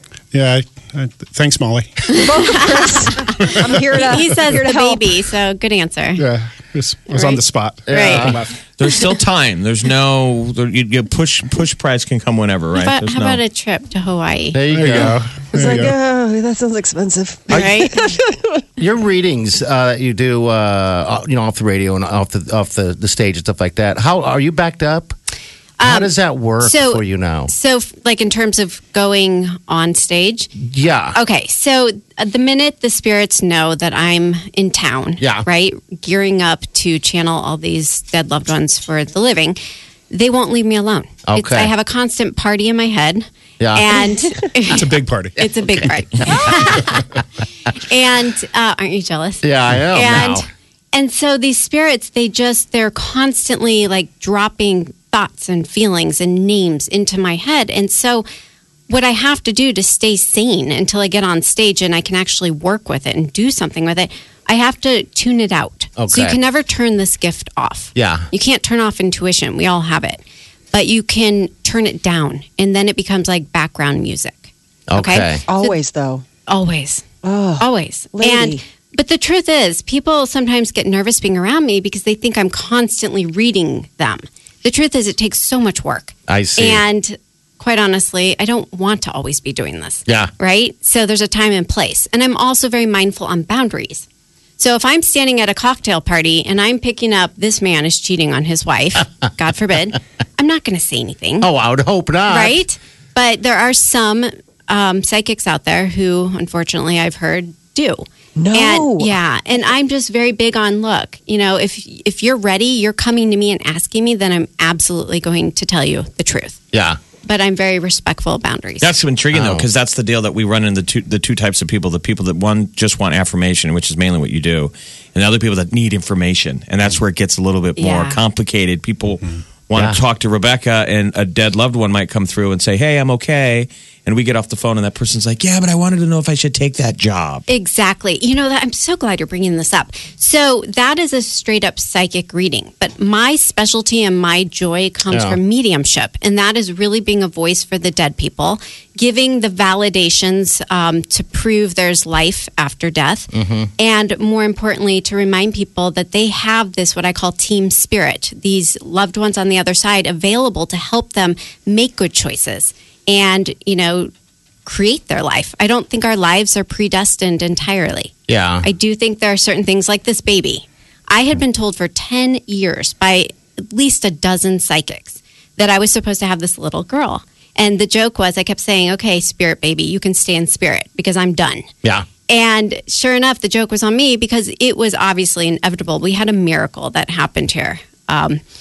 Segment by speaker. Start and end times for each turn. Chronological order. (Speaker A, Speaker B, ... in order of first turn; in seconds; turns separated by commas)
Speaker A: 0.3-2.2, Speaker B: 2.1-6.2, Speaker C: 2.1-5.1, Speaker A: 6.2-8.5, Speaker B: 7.1-8.4, Speaker D: 7.9-8.4, Speaker E: 8.8-13.4, Speaker B: 12.8-14.6, Speaker D: 14.5-15.2, Speaker A: 14.7-15.9, Speaker C: 15.5-18.6, Speaker B: 17.5-18.1, Speaker D: 18.8-25.1, Speaker B: 25.8-30.5, Speaker D: 25.8-27.5, Speaker D: 30.6-31.2, Speaker B: 31.1-39.6, Speaker D: 35.2-35.5, Speaker B: 40.1-47.1, Speaker D: 41.3-41.7, Speaker D: 43.6-44.0, Speaker A: 44.7-45.4, Speaker C: 46.3-46.7, Speaker B: 47.8-58.2, Speaker D: 49.4-50.5, Speaker B: 58.9-70.2, Speaker D: 66.0-66.4, Speaker D: 68.0-68.3, Speaker B: 70.7-75.8, Speaker D: 74.9-75.4, Speaker C: 75.5-76.2, Speaker B: 76.5-77.1, Speaker C: 77.2-78.6, Speaker B: 77.6-94.1, Speaker D: 86.3-86.8, Speaker B: 94.6-101.5, Speaker D: 101.4-102.6, Speaker B: 102.3-116.6, Speaker C: 108.4-109.1, Speaker D: 116.7-117.0, Speaker B: 117.2-118.9, Speaker E: 118.8-137.4, Speaker D: 119.3-119.7, Speaker B: 127.8-128.2, Speaker D: 129.7-130.0, Speaker B: 137.5-164.1, Speaker D: 145.1-145.4, Speaker D: 153.3-153.7, Speaker B: 164.7-181.7, Speaker D: 168.3-168.7, Speaker B: 182.3-188.4